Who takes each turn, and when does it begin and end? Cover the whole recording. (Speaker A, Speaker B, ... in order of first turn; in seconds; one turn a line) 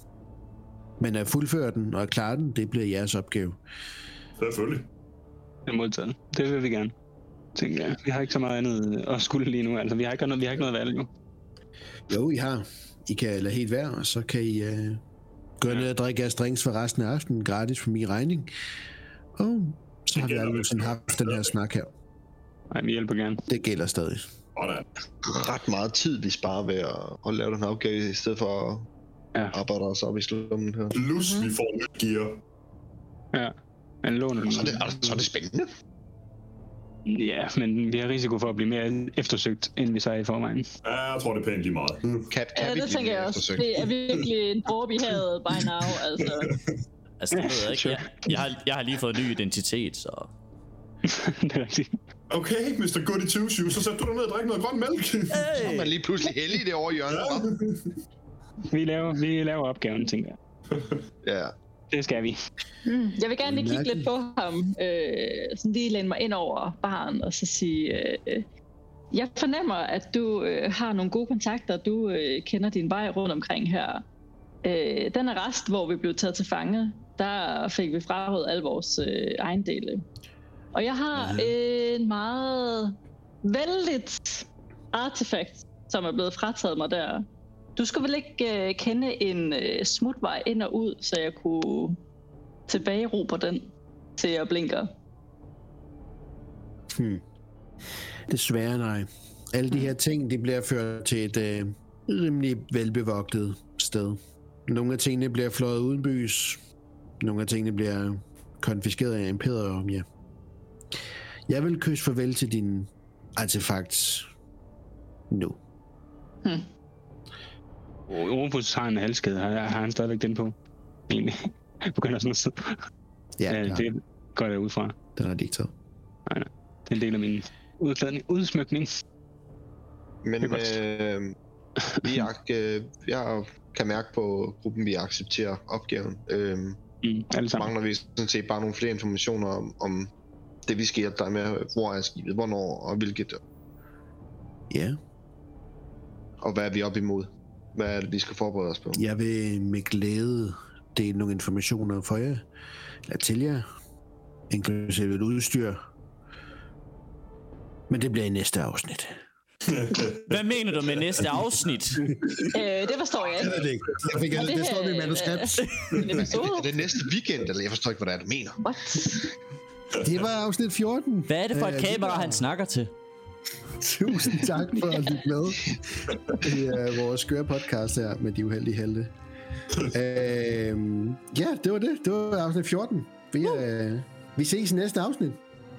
Speaker A: 1.0-3.6
Speaker B: 4.4-4.9
Speaker C: 5.7-6.9
Speaker C: 7.5-11.1
Speaker A: 12.1-15.0
Speaker A: 15.6-18.5
Speaker A: 19.4-21.9
Speaker B: 20.1-21.5
Speaker C: 22.7-23.4
Speaker A: 23.5-24.2
Speaker B: 24.6-24.9
Speaker D: 25.3-28.9
Speaker D: 29.5-31.0
Speaker B: 30.9-32.4
Speaker C: 33.3-34.8
Speaker D: 34.5-35.7
Speaker C: 37.1-40.7
Speaker B: 40.8-42.3
Speaker D: 42.3-43.8
Speaker E: 42.5-46.5
Speaker B: 45.5-46.5
Speaker F: 47.2-50.3
Speaker C: 47.4-48.0
Speaker C: 51.0-52.0
Speaker B: 52.3-55.6
Speaker F: 55.3-56.0
Speaker D: 55.6-57.5
Speaker B: 57.1-57.9
Speaker C: 58.7-60.4
Speaker B: 60.7-61.0
Speaker D: 61.2-61.5
Speaker C: 61.9-62.4
Speaker E: 62.8-68.4
Speaker A: 63.4-64.1
Speaker E: 69.1-74.0
Speaker E: 74.6-80.0
Speaker E: 80.7-87.2
Speaker A: 81.2-81.5
Speaker E: 87.8-92.0
Speaker E: 92.7-94.9
Speaker A: 96.9-97.2
Speaker A: 98.3-106.6
Speaker A: 107.2-110.0
Speaker A: 111.5-114.2
Speaker A: 115.3-115.6
Speaker C: 118.1-120.5
Speaker C: 121.1-122.8
Speaker A: 123.4-123.8
Speaker C: 123.5-124.9
Speaker A: 125.2-125.7
Speaker C: 126.3-128.9
Speaker D: 130.2-131.3
Speaker C: 130.4-130.8
Speaker C: 131.9-132.2
Speaker D: 132.0-136.8
Speaker C: 137.0-137.7
Speaker D: 137.6-140.1
Speaker D: 140.7-143.4
Speaker A: 144.7-145.0
Speaker D: 146.4-149.0
Speaker A: 148.9-152.4
Speaker A: 153.1-153.6
Speaker A: 154.5-155.8
Speaker A: 157.9-159.1
Speaker B: 159.7-160.3
Speaker F: 160.3-162.1
Speaker E: 162.5-163.6
Speaker A: 163.4-166.2
Speaker E: 164.3-166.8
Speaker B: 165.9-166.3
Speaker D: 166.5-168.6
Speaker E: 168.6-169.3
Speaker B: 170.0-170.2
Speaker A: 170.0-172.4
Speaker F: 171.3-172.9
Speaker A: 173.8-179.1
Speaker A: 179.9-185.4